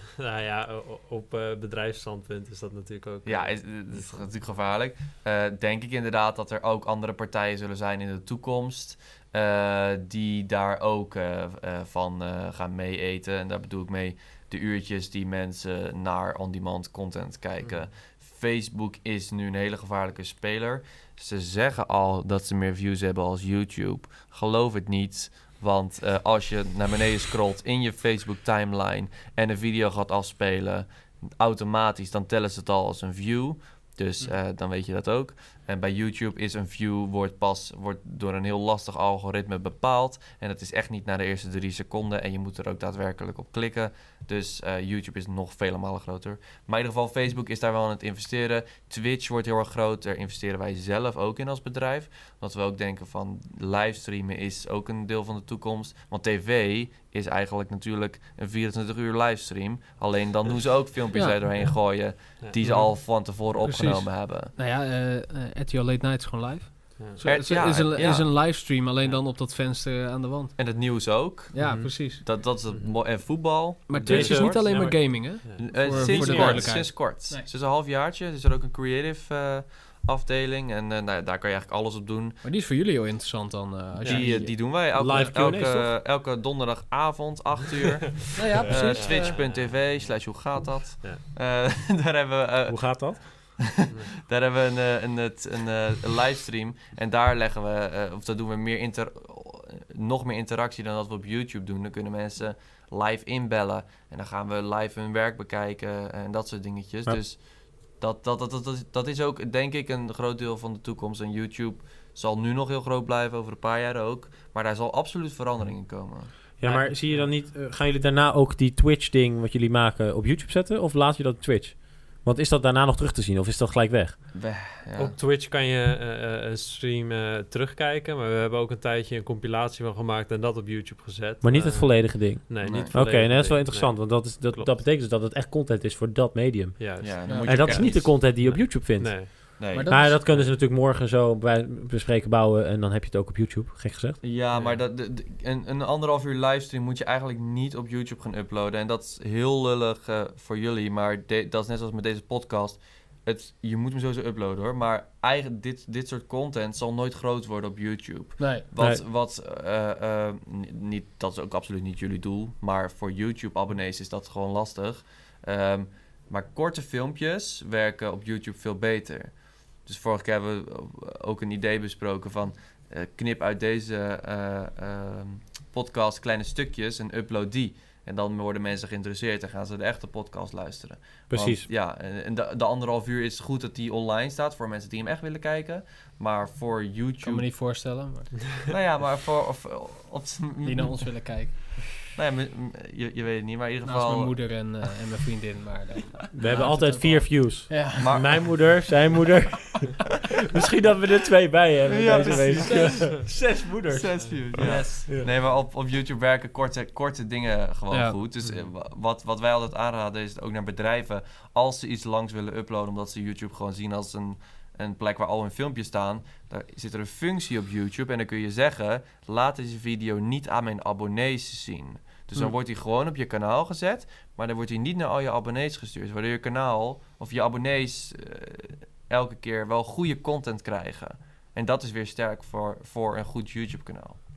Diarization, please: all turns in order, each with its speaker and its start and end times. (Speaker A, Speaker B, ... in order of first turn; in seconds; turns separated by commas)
Speaker A: 0.1-4.3, Speaker B: 3.2-64.5, Speaker A: 17.6-17.9, Speaker C: 61.1-61.6, Speaker A: 61.6-62.9, Speaker C: 63.6-70.5, Speaker B: 67.2-68.3, Speaker B: 70.5-82.4, Speaker C: 71.5-72.2, Speaker A: 71.6-73.2, Speaker C: 73.9-77.5, Speaker A: 74.0-76.7, Speaker D: 74.0-74.6, Speaker C: 82.4-85.6, Speaker B: 84.0-93.6, Speaker A: 84.0-84.3, Speaker D: 84.4-85.9, Speaker C: 88.3-89.4, Speaker A: 88.6-91.2, Speaker D: 92.7-93.6, Speaker B: 94.2-116.4, Speaker D: 116.6-124.2, Speaker C: 116.6-116.9, Speaker A: 116.7-117.3, Speaker B: 124.3-125.2, Speaker A: 124.9-134.8, Speaker D: 131.4-144.2, Speaker B: 132.6-133.0, Speaker A: 136.8-139.5, Speaker B: 137.0-138.2, Speaker C: 137.2-137.6, Speaker B: 139.6-140.1, Speaker C: 139.7-140.2, Speaker B: 144.2-187.6, Speaker A: 144.5-144.8, Speaker C: 158.4-158.6, Speaker D: 158.8-159.0, Speaker D: 181.3-181.7, Speaker C: 187.2-188.4, Speaker B: 188.7-191.3, Speaker C: 190.6-191.9, Speaker B: 192.1-194.8, Speaker C: 193.8-198.2, Speaker D: 196.3-205.3, Speaker B: 198.0-198.8, Speaker B: 201.9-234.2, Speaker C: 202.0-203.2, Speaker C: 204.6-205.0, Speaker C: 207.9-208.2